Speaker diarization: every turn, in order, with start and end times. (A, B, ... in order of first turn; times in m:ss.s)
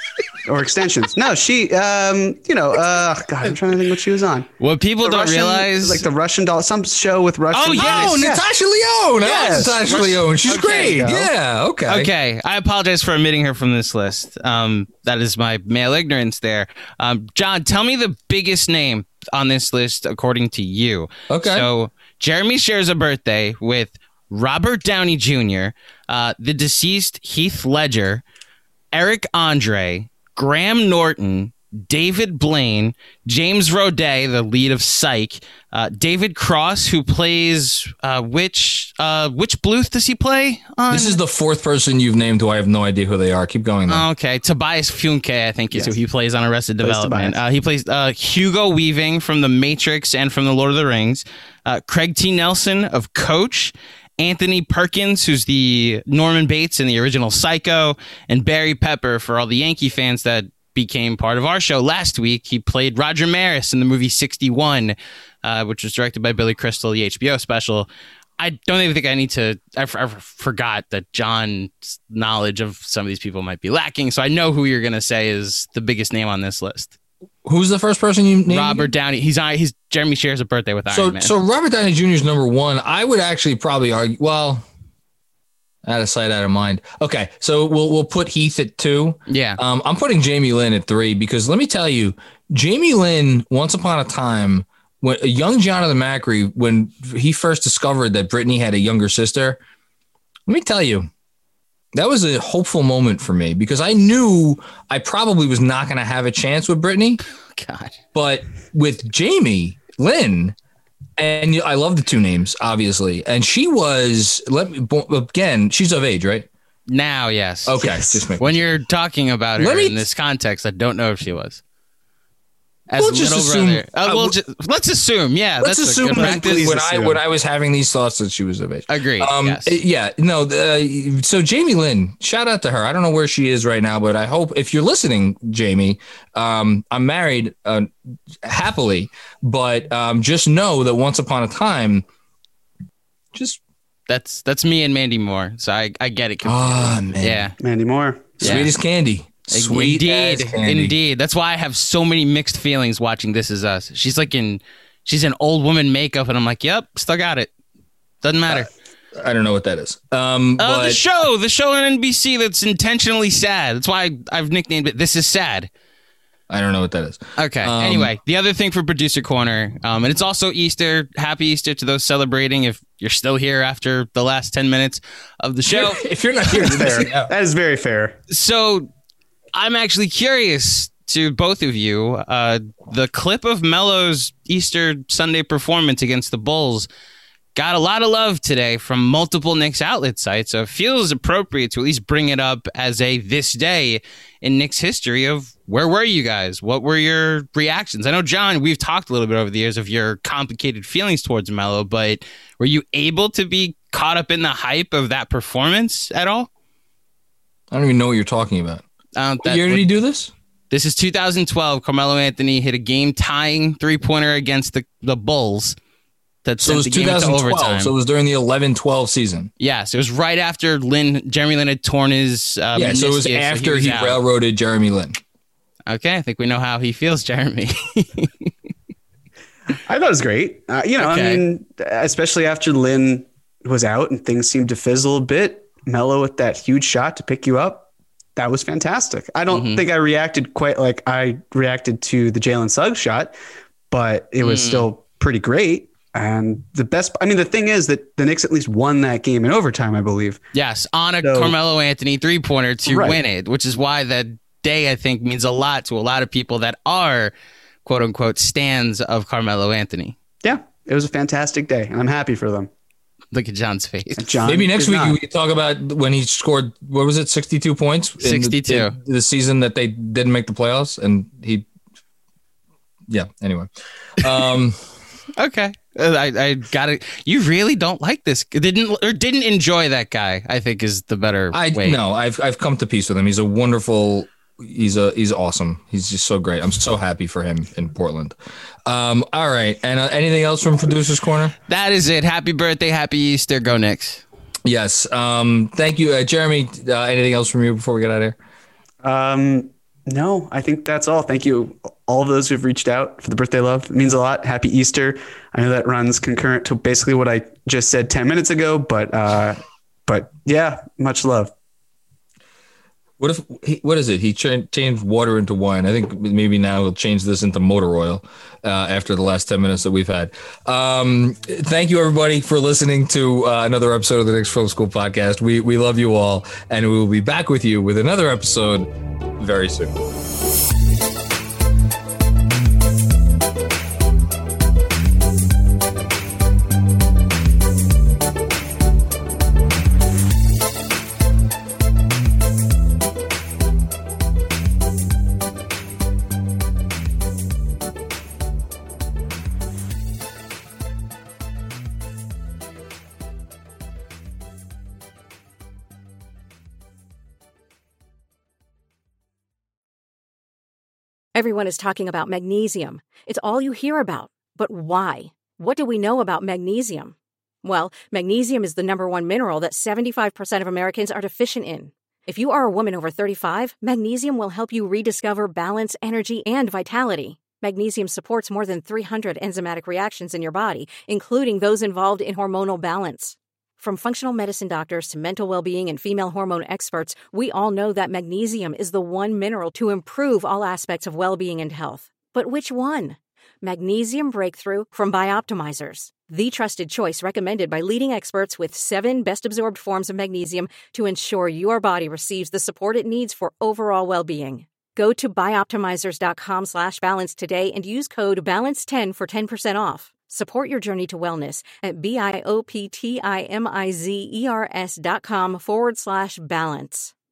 0:00.4-0:04.5 A
0:04.6-0:06.1 B
0:05.0-0:08.5 A
0:07.5-0:08.3 B
0:07.8-0:12.1 C
0:09.2-0:11.3 A
0:09.2-0:11.0 B
0:11.9-0:28.2 B
0:21.3-0:21.7 C
0:28.9-0:41.2 B
0:40.9-0:44.0 C
0:43.9-1:16.9 B
0:46.8-0:47.4 A
1:17.4-1:18.9 C
1:18.5-1:21.3 B
1:20.9-1:24.6 C
1:25.8-1:39.6 C
1:29.3-1:29.6 B
1:40.5-1:41.1 C
1:41.9-1:47.2 C
1:47.5-1:48.0 B
1:48.1-1:50.6 C
1:51.2-1:56.5 C
1:56.9-2:01.6 B
1:57.6-1:58.5 C
1:57.8-1:58.3 A
1:59.6-2:00.0 C
2:02.9-2:06.7 B
2:03.0-2:04.3 C
2:05.6-2:17.9 C
2:06.1-2:07.2 A
2:08.9-2:09.8 B
2:18.4-2:22.0 C
2:23.3-2:23.6 C
2:24.1-2:27.6 B
2:26.4-2:27.5 C
2:27.6-2:28.6 A
2:28.4-2:28.7 B
2:28.4-2:30.9 C
2:29.5-2:37.5 B
2:38.2-2:38.7 B
2:38.5-2:41.0 C
2:40.6-2:45.7 B
2:46.5-2:48.1 C
2:47.4-2:56.0 B
2:55.7-2:57.3 C
2:56.5-2:58.2 A
2:58.3-2:58.9 B
2:59.5-3:06.9 B
3:07.5-3:26.5 B
3:27.7-3:28.8 C
3:29.2-3:29.8 B
3:29.4-3:30.3 C
3:30.7-3:35.8 B
3:36.4-3:37.9 B
3:36.6-3:39.5 C
3:39.6-3:44.2 B
3:42.7-3:45.2 C
3:45.9-3:48.5 B
3:49.9-4:03.3 A
3:51.0-3:51.4 B
3:59.5-3:59.8 B
4:03.9-4:10.4 A
4:04.4-4:04.9 B
4:10.5-4:17.3 B
4:11.2-4:11.6 A
4:12.9-4:13.2 A
4:17.8-4:20.2 B
4:20.4-4:22.7 A
4:23.3-4:24.4 B
4:24.2-4:25.2 A
4:24.4-4:31.6 C
4:28.2-4:28.9 B
4:33.1-4:34.8 C
4:35.4-4:42.0 B
4:41.5-4:51.5 C
4:51.7-4:54.2 B
4:54.6-4:58.4 C
4:59.0-5:11.5 A
5:13.2-5:30.0 C
6:01.3-6:57.1 D